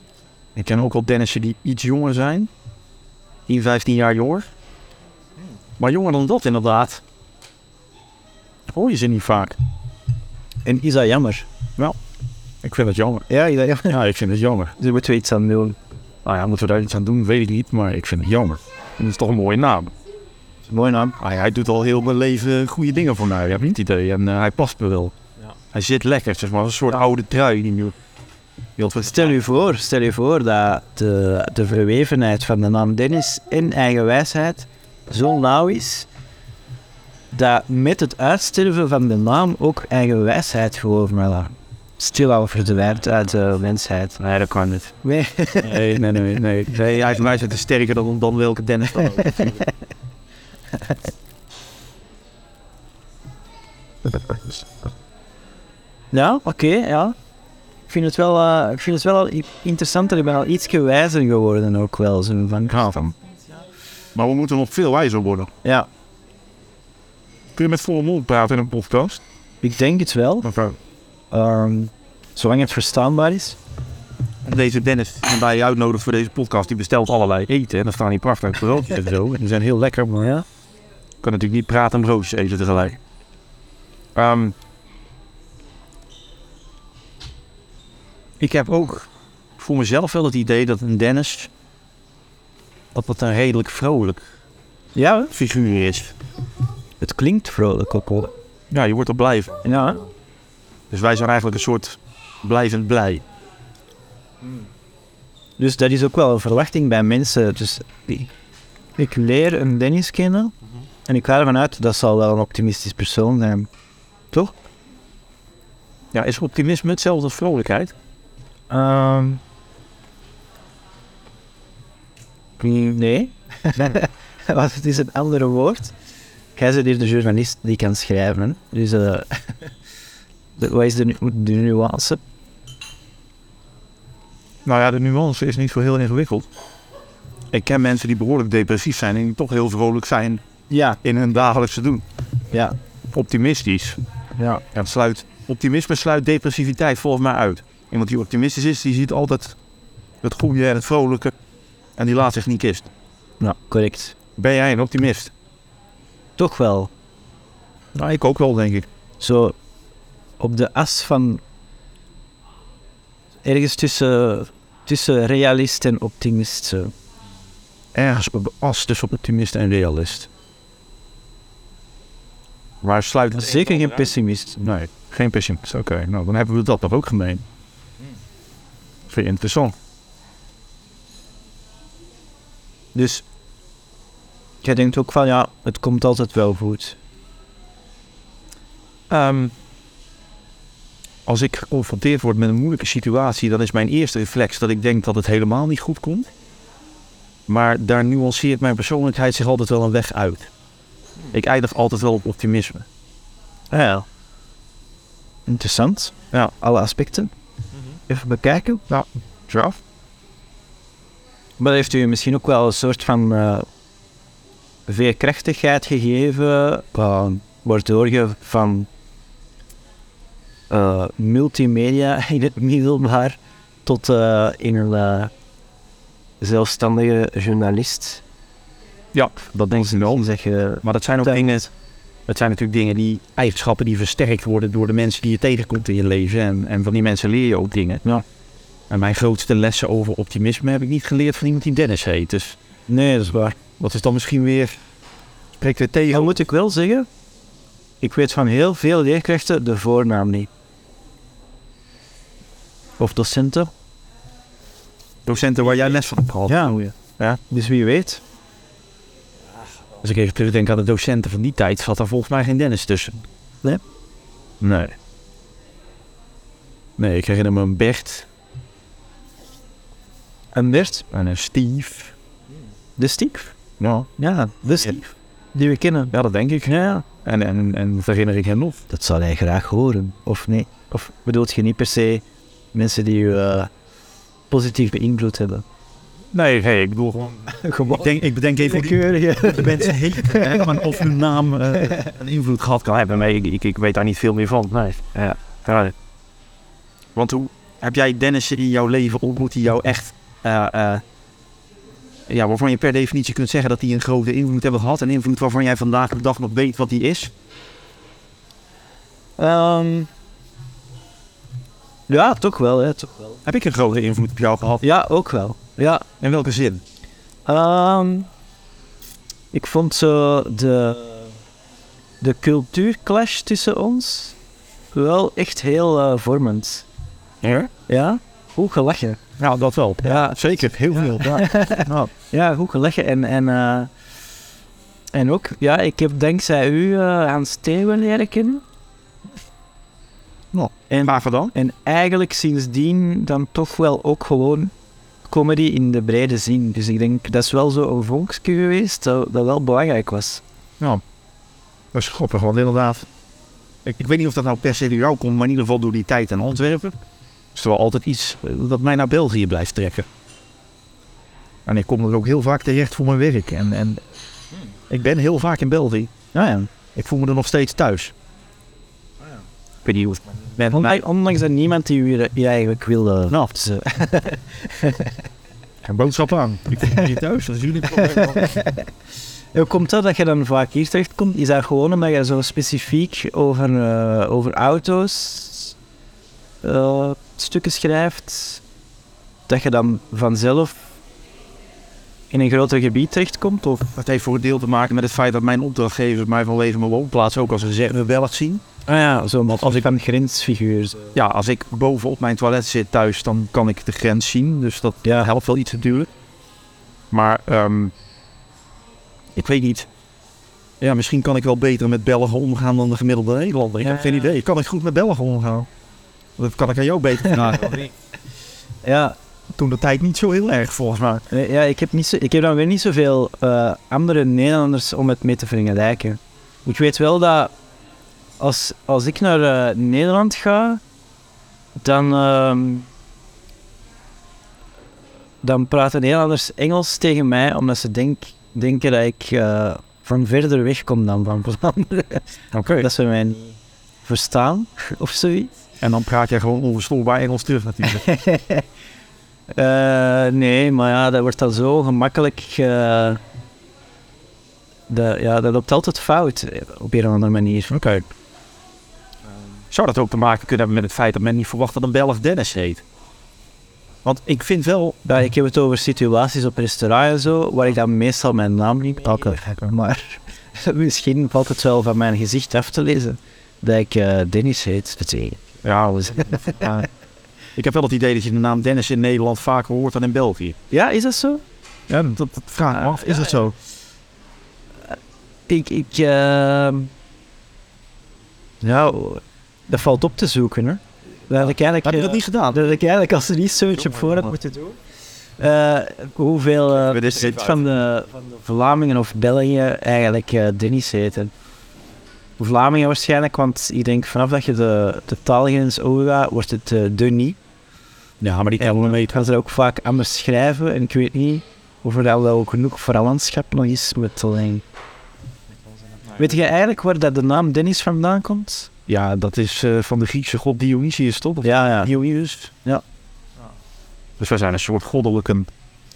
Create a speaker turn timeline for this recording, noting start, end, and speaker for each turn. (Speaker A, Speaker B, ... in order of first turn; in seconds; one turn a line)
Speaker A: 0.6-2.5
Speaker A: 3.5-4.5
Speaker A: 5.8-7.0
Speaker A: 8.7-9.6
Speaker B: 10.7-11.5
Speaker A: 12.6-13.3
Speaker B: 13.3-14.0
Speaker A: 13.9-14.8
Speaker B: 14.8-15.8
Speaker A: 16.2-19.9
Speaker B: 20.7-21.2
Speaker A: 21.2-25.1
Speaker A: 25.7-27.9
Speaker A: 28.8-29.4
Speaker B: 29.0-36.1
Speaker B: 37.3-44.2
Speaker A: 44.2-44.9
Speaker B: 45.0-46.0
Speaker A: 45.6-49.7
Speaker A: 54.1-54.6
Speaker B: 56.1-57.1
Speaker B: 57.9-63.1
Speaker A: 64.2-65.5
Speaker A: 67.6-69.2
Speaker B: 69.6-70.5
Speaker A: 70.4-70.8
Speaker B: 71.3-73.6
Speaker A: 74.4-80.4
Speaker A: 81.2-83.0
Speaker A: 84.2-84.5
Speaker A: 88.4-91.5
Speaker A: 92.9-94.2
Speaker B: 95.0-95.3
Speaker A: 95.3-96.2
Speaker B: 97.0-98.3
Speaker A: 98.7-99.7
Speaker B: 99.6-100.0
Speaker A: 100.9-103.2
Speaker B: 105.6-108.3
Speaker B: 109.0-110.5
Speaker B: 111.1-113.7
Speaker A: 116.1-117.9
Speaker B: 118.7-119.4
Speaker B: 122.6-125.9
Speaker B: 126.6-129.7
Speaker B: 130.6-132.2
Speaker A: 134.7-136.5
Speaker A: 137.5-140.4
Speaker B: 140.7-141.0
Speaker A: 141.0-142.0
Speaker A: 143.1-144.0
Speaker B: 144.4-144.6
Speaker A: 144.6-149.6
Speaker A: 150.2-151.3
Speaker A: 152.0-152.9
Speaker B: 153.4-154.2
Speaker A: 154.4-155.3
Speaker B: 156.4-156.9
Speaker A: 157.9-158.9
Speaker B: 159.2-159.6
Speaker B: 160.4-161.4
Speaker B: 163.4-166.9
Speaker A: 167.9-170.3
Speaker A: 172.8-177.4
Speaker B: 173.3-174.6
Speaker A: 179.1-179.7
Speaker B: 182.9-183.2
Speaker B: 184.6-187.0
Speaker A: 189.1-189.5
Speaker A: 191.3-196.3
Speaker A: 197.5-200.5
Speaker A: 201.3-202.9
Speaker B: 203.7-204.1
Speaker B: 205.5-207.3
Speaker B: 208.1-208.8
Speaker A: 208.9-209.8
Speaker B: 211.6-213.7
Speaker B: 214.9-218.9
Speaker B: 220.7-225.3
Speaker B: 226.4-228.2
Speaker A: 229.1-230.3
Speaker B: 229.7-231.5
Speaker A: 230.8-231.7
Speaker A: 232.3-238.0
Speaker A: 238.9-242.6
Speaker B: 242.9-243.6
Speaker A: 243.8-244.8
Speaker A: 245.6-246.4
Speaker B: 246.1-247.1
Speaker B: 248.0-250.5
Speaker B: 253.0-253.7
Speaker A: 255.2-257.4
Speaker B: 256.5-256.9
Speaker B: 257.5-258.2
Speaker A: 260.0-263.2
Speaker A: 264.6-264.9
Speaker A: 267.0-268.3
Speaker B: 270.5-271.1
Speaker A: 271.1-272.1
Speaker B: 273.0-273.6
Speaker A: 273.8-274.1
Speaker B: 274.2-276.1
Speaker A: 276.1-278.8
Speaker B: 278.9-283.7
Speaker B: 284.5-285.6
Speaker A: 286.3-295.9
Speaker B: 287.5-291.0
Speaker A: 297.2-301.0
Speaker A: 302.3-307.3
Speaker B: 309.4-310.1
Speaker B: 312.1-313.4
Speaker A: 313.4-314.8
Speaker B: 314.8-316.1
Speaker A: 316.2-316.8
Speaker B: 317.5-318.3
Speaker B: 319.5-321.3
Speaker B: 322.2-324.4
Speaker B: 324.9-326.9
Speaker A: 327.4-327.7
Speaker B: 327.9-329.2
Speaker A: 329.4-332.1
Speaker B: 330.0-330.4
Speaker B: 331.1-333.9
Speaker B: 335.1-338.6
Speaker A: 340.5-341.5
Speaker B: 340.9-344.7
Speaker B: 345.3-350.4
Speaker A: 351.9-353.1
Speaker A: 353.9-357.0
Speaker A: 357.6-360.1
Speaker A: 361.7-364.0
Speaker A: 364.9-366.1
Speaker B: 366.3-366.7
Speaker A: 366.9-368.1
Speaker A: 369.8-370.9
Speaker B: 370.7-375.2
Speaker A: 375.8-378.6
Speaker B: 378.0-378.9
Speaker B: 379.5-385.8
Speaker B: 386.6-388.6
Speaker B: 389.5-390.9
Speaker B: 392.3-393.9
Speaker A: 393.9-398.6
Speaker B: 398.9-401.1
Speaker A: 401.1-406.1
Speaker A: 407.1-407.9
Speaker A: 409.4-409.9
Speaker A: 410.8-415.7
Speaker B: 413.8-414.3
Speaker A: 416.4-417.9
Speaker B: 417.2-417.9
Speaker B: 418.8-419.2
Speaker A: 419.5-421.2
Speaker B: 421.3-427.5
Speaker B: 428.4-430.8
Speaker B: 431.8-432.9
Speaker B: 435.4-445.5
Speaker A: 442.5-442.9
Speaker A: 445.8-448.1
Speaker B: 447.9-448.6
Speaker B: 449.5-453.2
Speaker B: 454.9-457.7
Speaker A: 457.7-458.1
Speaker A: 459.7-462.8
Speaker A: 464.0-465.0
Speaker B: 465.1-475.4
Speaker A: 469.0-469.7
Speaker A: 475.6-476.9
Speaker B: 476.2-476.8
Speaker A: 477.6-480.6
Speaker B: 480.7-481.4
Speaker A: 481.9-483.6
Speaker B: 482.8-483.2
Speaker B: 485.5-486.9
Speaker B: 488.6-494.8
Speaker A: 491.8-492.6
Speaker B: 495.4-501.3
Speaker A: 496.8-497.6
Speaker B: 502.4-507.4
Speaker A: 508.2-509.2
Speaker B: 508.6-514.6
Speaker B: 516.2-518.7
Speaker A: 518.9-522.5
Speaker B: 521.4-521.9
Speaker A: 524.2-525.5